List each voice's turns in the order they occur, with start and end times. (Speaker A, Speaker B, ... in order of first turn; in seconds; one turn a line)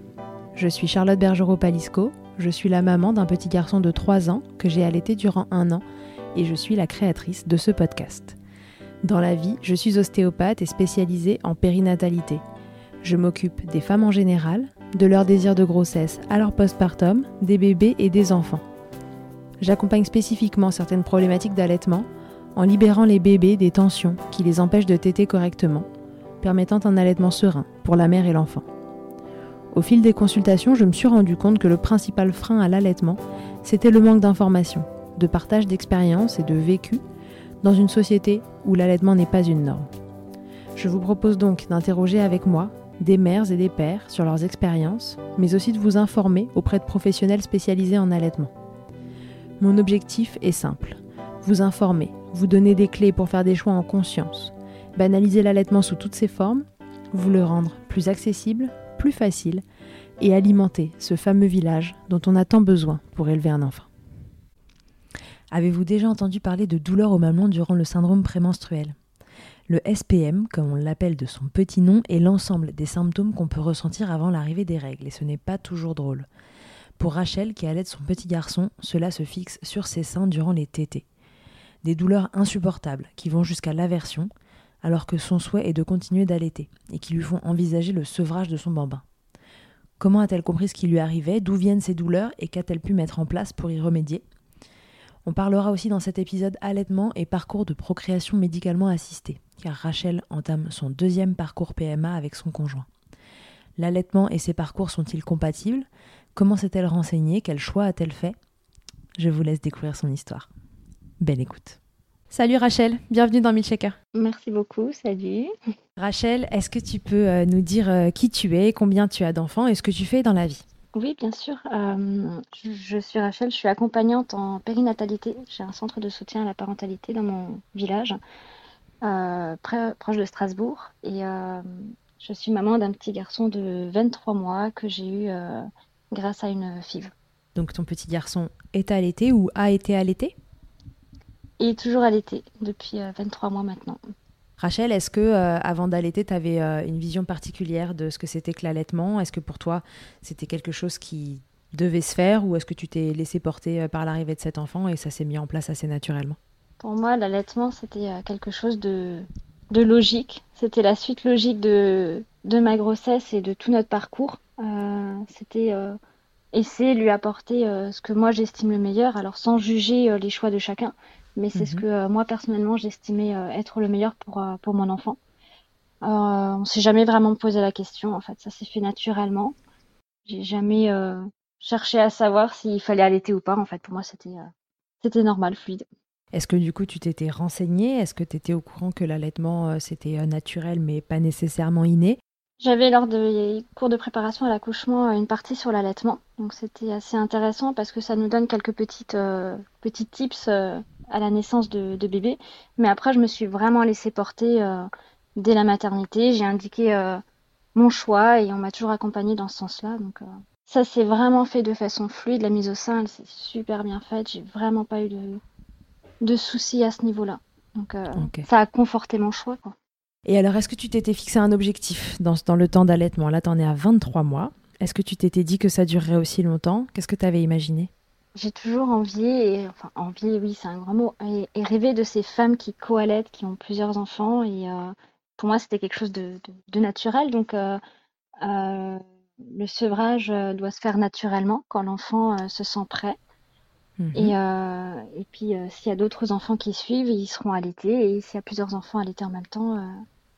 Speaker A: 0.6-5.8
Speaker A: 6.3-8.4
Speaker A: 9.0-12.4
Speaker A: 13.0-18.6
Speaker A: 19.6-25.9
Speaker A: 26.4-28.7
Speaker A: 29.7-37.0
Speaker A: 37.6-39.9
Speaker A: 40.8-48.5
Speaker A: 49.6-59.6
Speaker A: 60.2-63.9
Speaker A: 65.5-69.0
Speaker A: 69.7-76.3
Speaker A: 77.0-81.1
Speaker A: 81.8-84.3
Speaker A: 84.8-89.0
Speaker A: 90.0-94.2
Speaker A: 95.2-102.9
Speaker A: 103.8-108.4
Speaker A: 109.2-110.5
Speaker A: 111.2-111.8
Speaker A: 112.3-114.0
Speaker B: 114.2-115.5
Speaker A: 116.0-120.6
Speaker B: 121.0-128.2
Speaker B: 129.0-137.1
Speaker A: 137.6-140.3
Speaker B: 141.6-144.0
Speaker A: 144.6-156.4
Speaker B: 156.8-166.0
Speaker B: 166.5-175.2
Speaker A: 171.6-171.8
Speaker B: 176.0-179.6
Speaker B: 180.3-184.5
Speaker B: 185.0-185.9
Speaker A: 186.3-192.2
Speaker B: 192.6-207.2
Speaker B: 207.8-215.4
Speaker B: 216.2-219.8
Speaker A: 218.2-218.5
Speaker A: 220.3-227.9
Speaker B: 228.4-237.8
Speaker B: 238.4-243.2
Speaker A: 244.0-244.4
Speaker B: 244.2-250.0